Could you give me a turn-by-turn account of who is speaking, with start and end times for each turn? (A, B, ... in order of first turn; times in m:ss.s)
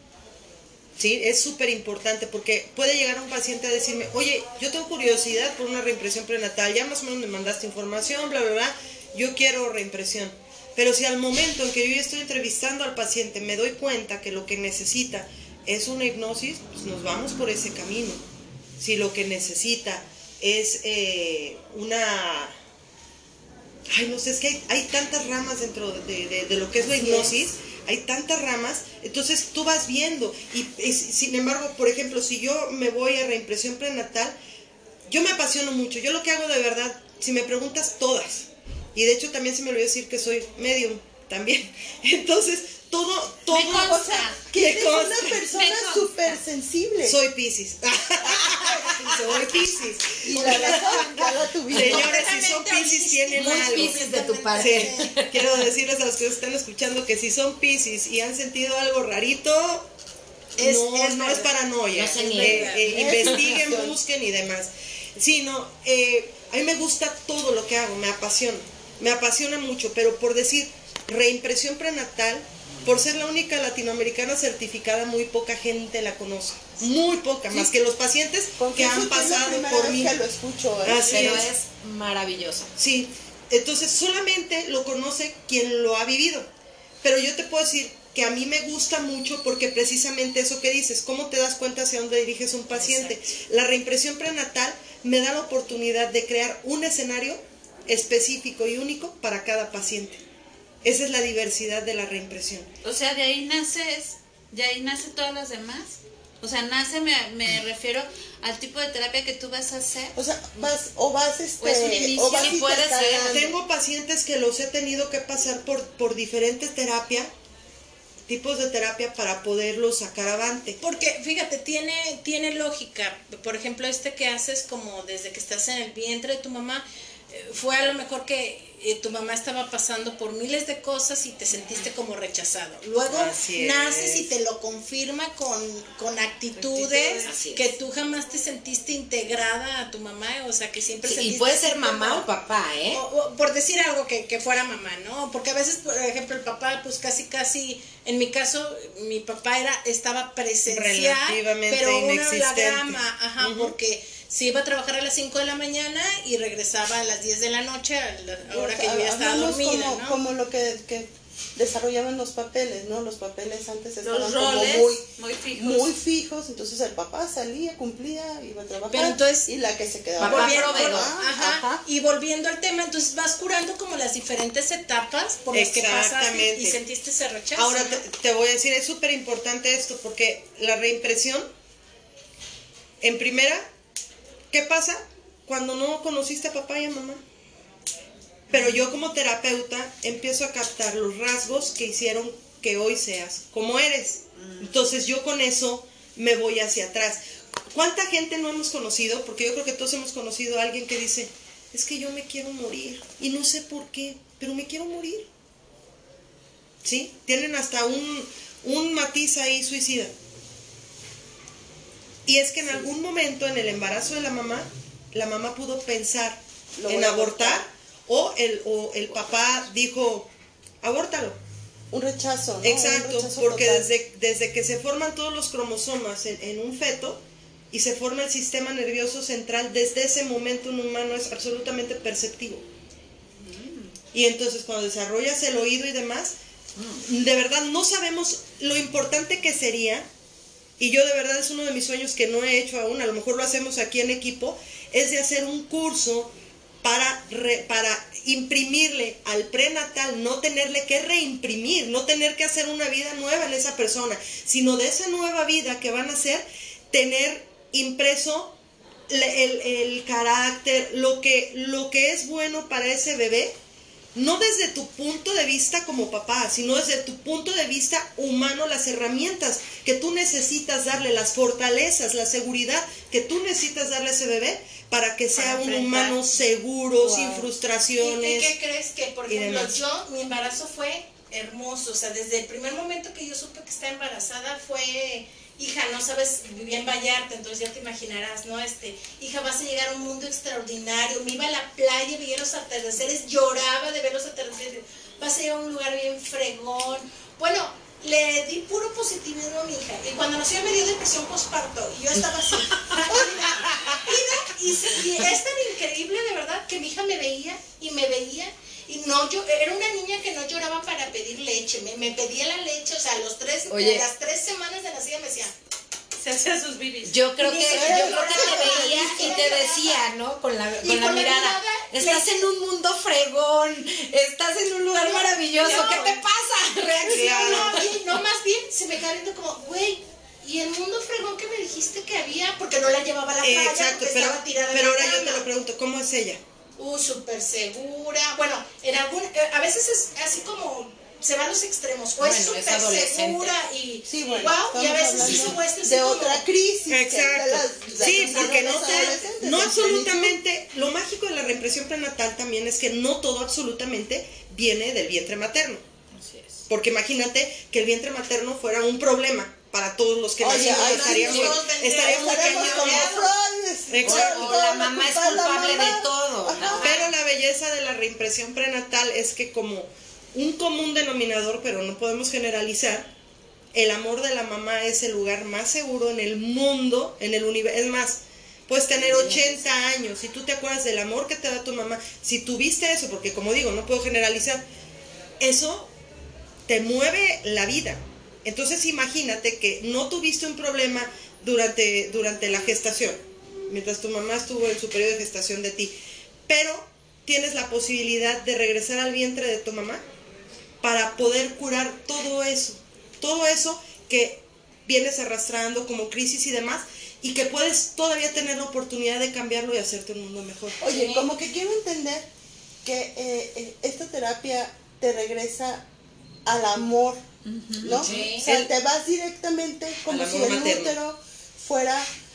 0:01.0-0:18.2 A
0:18.8-0:22.6 A
0:23.9-0:34.4 A
0:26.9-0:27.5 B
0:35.1-0:45.4 A
0:43.5-0:44.4 C
0:43.5-0:47.2 B
0:45.5-0:46.4 C
0:47.0-0:54.0 A
0:50.2-0:52.1 B
0:50.4-0:50.8 D
0:51.7-0:55.2 D
0:53.3-0:55.7 E
0:54.6-0:59.9 A
1:00.6-1:01.5 D
1:00.6-1:20.2 A
1:01.9-1:03.3 E
1:02.0-1:02.9 D
1:02.8-1:04.0 B
1:18.6-1:21.5 B
1:20.8-1:21.5 A
1:20.9-1:22.7 E
1:22.8-1:26.5 A
1:27.0-1:40.2 A
1:40.8-1:42.7 A
1:42.8-1:50.1 C
1:50.2-1:53.5 B
1:51.6-1:53.4 C
1:52.3-1:53.3 E
1:53.3-1:57.3 A
1:58.3-2:00.8 A
2:00.8-2:22.3 D
2:13.1-2:14.3 A
2:16.6-2:17.3 C
2:17.2-2:17.7 E
2:21.0-2:23.0 E
2:22.9-2:40.2 D
2:30.7-2:33.7 A
2:38.5-2:51.4 B
2:44.0-2:45.9 C
2:48.9-2:49.5 D
2:50.2-2:51.1 E
2:50.2-2:58.0 D
2:55.5-2:56.8 A
2:57.6-3:01.5 A
3:03.0-3:03.7 A
3:04.5-3:07.2 A
3:08.5-3:17.2 A
3:17.7-3:25.3 A
3:26.8-3:30.1 A
3:32.3-3:40.3 A
3:36.8-3:37.7 B
3:40.8-3:41.4 A
3:41.9-3:43.9 B
3:42.6-3:52.7 A
3:53.4-3:54.0 C
3:54.1-3:56.4 A
3:57.0-4:00.1 A
4:00.8-4:18.6 A
4:19.1-4:23.6 A
4:24.2-4:38.6 A
4:35.3-4:36.4 D
4:37.0-4:37.5 B
4:37.9-5:15.5 D
4:39.3-4:39.8 A
5:13.7-5:14.1 E
5:16.2-5:18.0 C
5:17.1-5:27.7 E
5:17.4-5:20.0 D
5:17.5-5:19.4 B
5:20.8-5:22.5 D
5:24.9-5:26.2 D
5:25.6-5:26.1 C
5:27.0-5:27.9 A
5:27.0-5:35.5 D
5:33.4-5:36.4 A
5:36.8-5:46.5 D
5:42.2-5:43.6 E
5:44.1-5:50.4 B
5:46.9-5:55.8 A
5:56.7-6:03.2 A
6:00.4-6:06.9 B
6:00.9-6:03.2 D
6:01.0-6:01.5 E
6:03.9-6:04.6 A
6:04.0-6:07.1 E
6:06.6-6:07.1 C
6:06.8-6:13.1 A
6:13.7-6:24.6 A
6:18.9-6:19.6 E
6:25.4-6:25.9 A
6:26.7-6:36.0 A
6:36.5-6:40.0 A
6:40.8-6:50.8 A
6:50.8-6:52.3 B
6:50.8-6:51.3 D
6:52.8-6:55.9 B
6:56.5-6:57.2 B
6:57.4-6:58.1 C
6:57.8-7:02.1 B
6:57.9-6:58.3 E
6:58.0-6:58.6 D
6:58.1-6:58.7 A
7:00.1-7:01.0 A